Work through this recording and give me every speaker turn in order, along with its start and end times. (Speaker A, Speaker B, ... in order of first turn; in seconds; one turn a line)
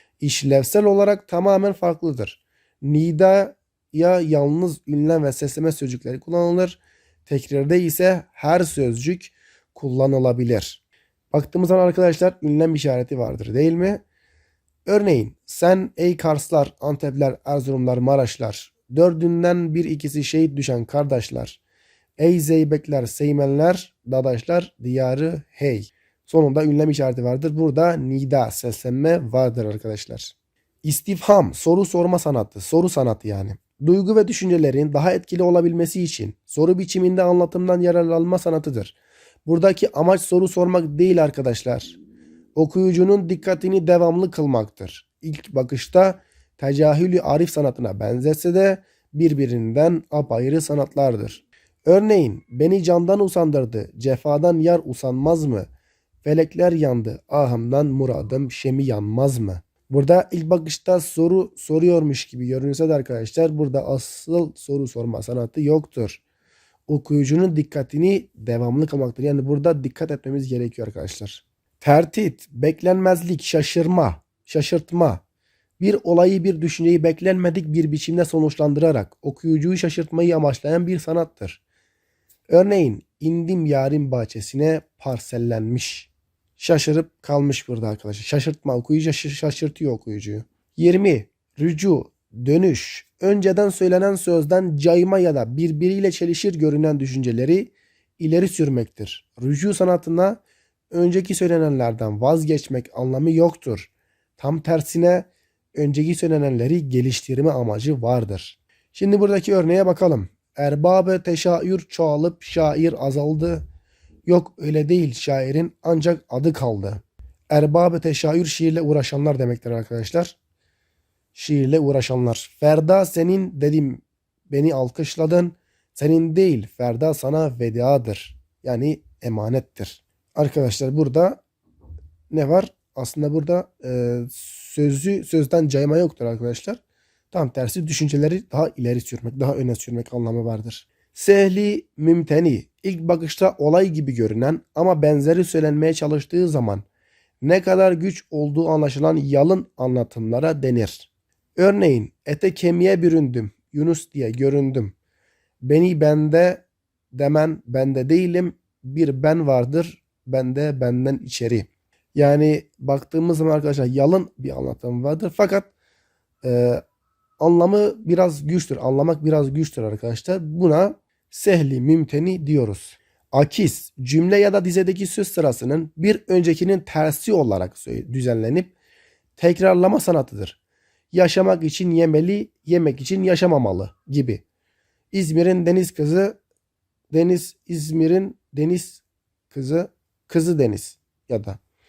Speaker A: 0.2-14.0
Speaker A: 14.8-21.6
Speaker A: 22.2-41.9
Speaker A: 42.5-55.7
Speaker A: 56.2-66.2
Speaker A: 66.9-75.2
Speaker A: 75.8-81.6
Speaker A: 82.5-100.4
Speaker A: 100.9-113.6
Speaker A: 114.2-120.3
Speaker A: 121.3-131.4
Speaker A: 132.3-136.8
Speaker A: 137.3-146.8
Speaker A: 147.4-154.9
Speaker A: 155.6-165.7
Speaker A: 166.4-166.8
Speaker A: 167.4-178.7
Speaker A: 179.4-180.6
Speaker A: 181.1-184.4
Speaker A: 185.1-186.4
Speaker A: 187.1-191.6